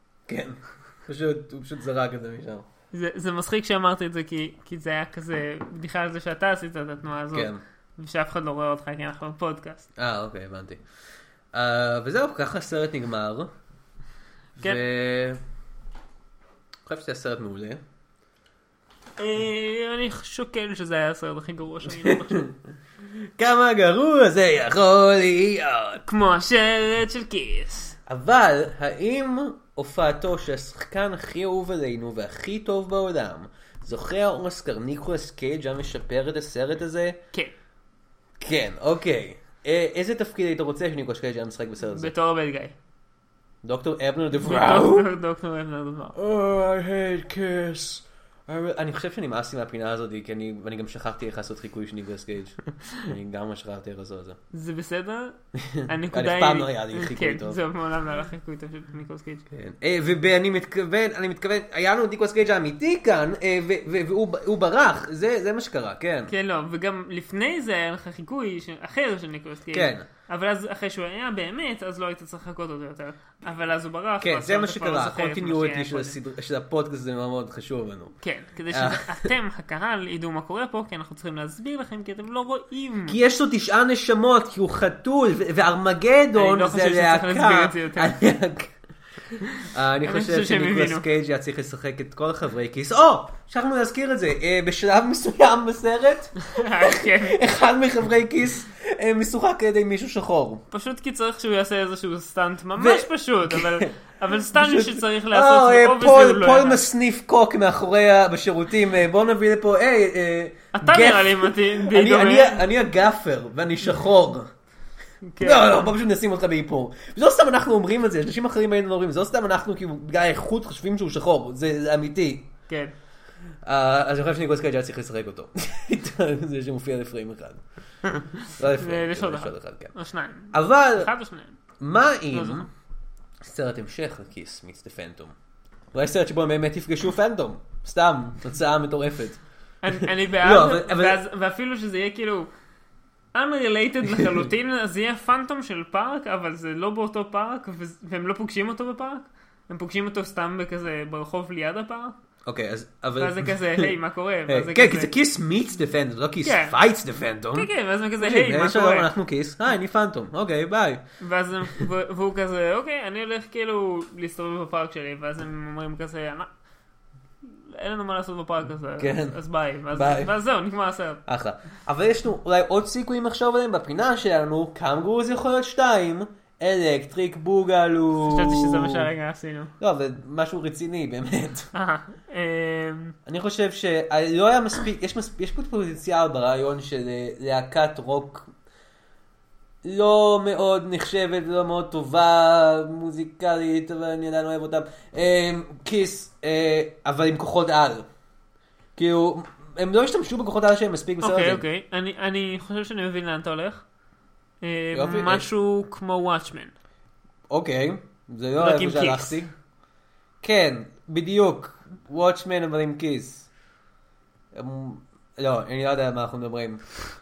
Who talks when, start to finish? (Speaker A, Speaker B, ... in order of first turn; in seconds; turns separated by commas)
Speaker A: 0.3-2.7, Speaker B: 2.9-9.9, Speaker A: 7.3-7.6, Speaker A: 10.0-10.8, Speaker A: 11.5-13.5, Speaker A: 14.6-15.4, Speaker A: 16.9-17.8, Speaker B: 19.2-22.5, Speaker A: 22.0-22.5, Speaker A: 23.4-26.0, Speaker B: 26.1-28.0, Speaker A: 28.1-37.2, Speaker A: 38.4-42.1, Speaker B: 41.9-42.8, Speaker A: 43.6-45.1, Speaker B: 44.4-46.1, Speaker A: 46.1-54.4, Speaker B: 54.5-59.5, Speaker A: 55.6-57.6, Speaker A: 59.5-66.3, Speaker B: 66.3-76.2, Speaker A: 69.7-70.1, Speaker A: 74.2-78.2, Speaker B: 78.2-83.2, Speaker A: 78.7-79.3, Speaker A: 83.1-88.7, Speaker B: 86.3-88.2, Speaker A: 89.6-100.6, Speaker B: 90.0-91.1, Speaker B: 96.5-97.4, Speaker B: 100.7-106.9, Speaker A: 102.8-104.0, Speaker A: 104.5-114.5, Speaker B: 110.8-112.7, Speaker B: 115.3-115.9, Speaker A: 115.4-122.5, Speaker B: 122.7-122.9, Speaker A: 123.7-127.6, Speaker A: 128.4-129.9, Speaker B: 128.7-131.6, Speaker A: 130.5-131.1, Speaker A: 131.8-132.7, Speaker B: 132.3-132.7, Speaker A: 133.4-135.3, Speaker A: 135.9-139.4, Speaker B: 139.8-142.5, Speaker A: 140.4-141.2, Speaker B: 143.3-152.2, Speaker A: 152.5-153.9, Speaker B: 153.2-155.1, Speaker A: 154.5-161.0, Speaker B: 156.4-156.8, Speaker B: 157.5-159.1, Speaker B: 161.2-166.5, Speaker B: 167.7-171.2, Speaker A: 169.0-169.4, Speaker A: 169.9-170.3, Speaker A: 171.3-179.1, Speaker B: 178.2-179.7, Speaker A: 179.8-181.7, Speaker B: 181.7-183.2, Speaker A: 183.3-188.5, Speaker A: 189.8-198.1, Speaker A: 199.0-201.6, Speaker B: 201.2-203.8, Speaker B: 204.6-206.7, Speaker A: 204.9-205.5, Speaker A: 207.5-209.5, Speaker B: 208.6-209.3, Speaker A: 210.4-213.5, Speaker A: 214.5-216.8